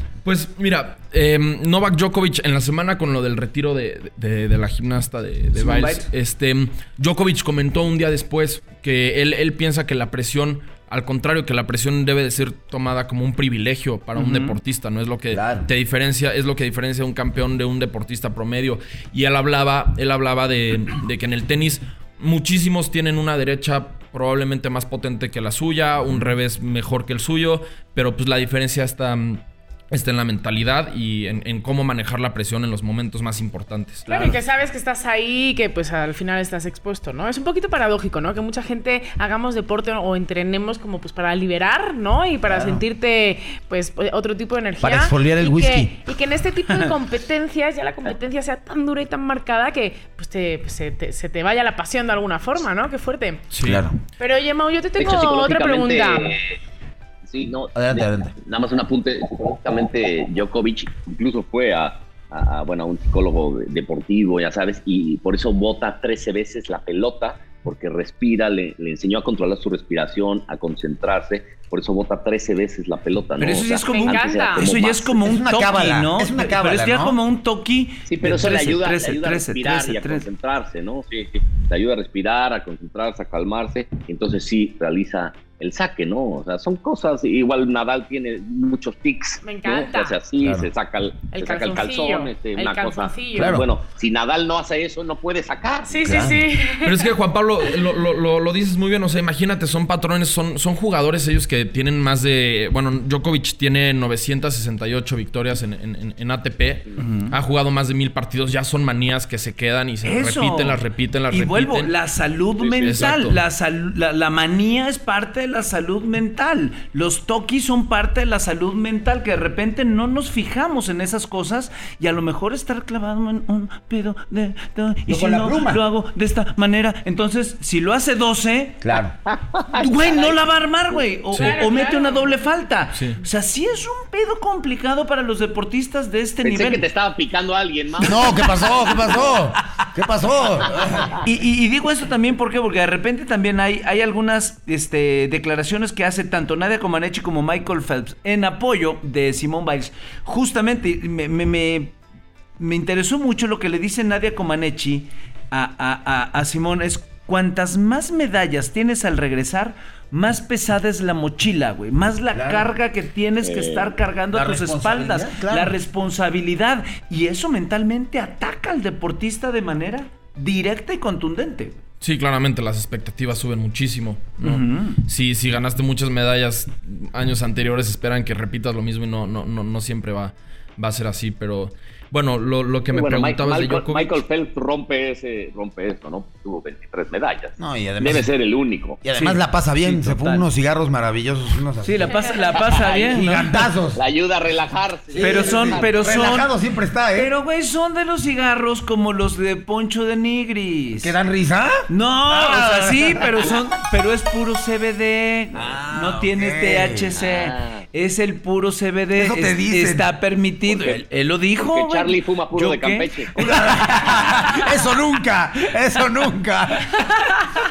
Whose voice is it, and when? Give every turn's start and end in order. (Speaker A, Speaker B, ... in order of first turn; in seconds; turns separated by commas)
Speaker A: 0.2-34.1, Speaker B: 5.5-6.1, Speaker B: 14.2-14.6, Speaker C: 15.3-15.7, Speaker D: 34.1-53.5, Speaker C: 42.5-42.8, Speaker C: 44.8-46.0, Speaker A: 53.5-53.9, Speaker C: 53.6-54.0, Speaker D: 54.2-56.3, Speaker E: 55.0-56.5, Speaker E: 57.2-75.2, Speaker C: 57.7-58.3, Speaker B: 73.4-80.2, Speaker D: 73.9-74.7, Speaker C: 75.2-77.2, Speaker E: 78.0-96.3, Speaker D: 89.4-90.2, Speaker C: 90.4-90.7, Speaker D: 91.3-93.6, Speaker C: 93.3-93.7, Speaker D: 95.9-97.1, Speaker C: 96.0-96.4, Speaker A: 96.8-111.9, Speaker B: 107.0-107.3, Speaker B: 110.0-128.9, Speaker E: 112.6-113.1, Speaker A: 112.8-113.4, Speaker C: 125.1-125.8, Speaker C: 128.8-129.1, Speaker E: 129.3-130.4, Speaker B: 129.7-136.8, Speaker A: 131.3-131.6, Speaker D: 131.3-132.4, Speaker A: 132.9-133.2, Speaker E: 136.4-139.4, Speaker C: 138.0-141.2, Speaker B: 138.0-139.4, Speaker B: 141.2-151.9, Speaker B: 152.6-171.8, Speaker C: 162.3-162.7, Speaker E: 163.4-163.9, Speaker C: 164.3-165.8, Speaker A: 172.0-184.2, Speaker B: 174.4-175.0, Speaker E: 182.9-189.0, Speaker C: 187.6-188.3, Speaker C: 189.0-192.1, Speaker B: 189.1-190.4, Speaker B: 191.8-193.7, Speaker D: 192.1-192.9, Speaker E: 192.5-193.2, Speaker C: 193.1-194.0, Speaker E: 193.9-196.3, Speaker C: 195.1-197.3, Speaker B: 195.2-196.5, Speaker B: 197.1-201.1, Speaker C: 201.0-203.5, Speaker B: 201.9-214.7, Speaker C: 205.5-207.1, Speaker E: 207.2-207.8, Speaker C: 209.2-210.1, Speaker E: 210.7-211.0, Speaker E: 211.6-213.7, Speaker C: 213.3-217.0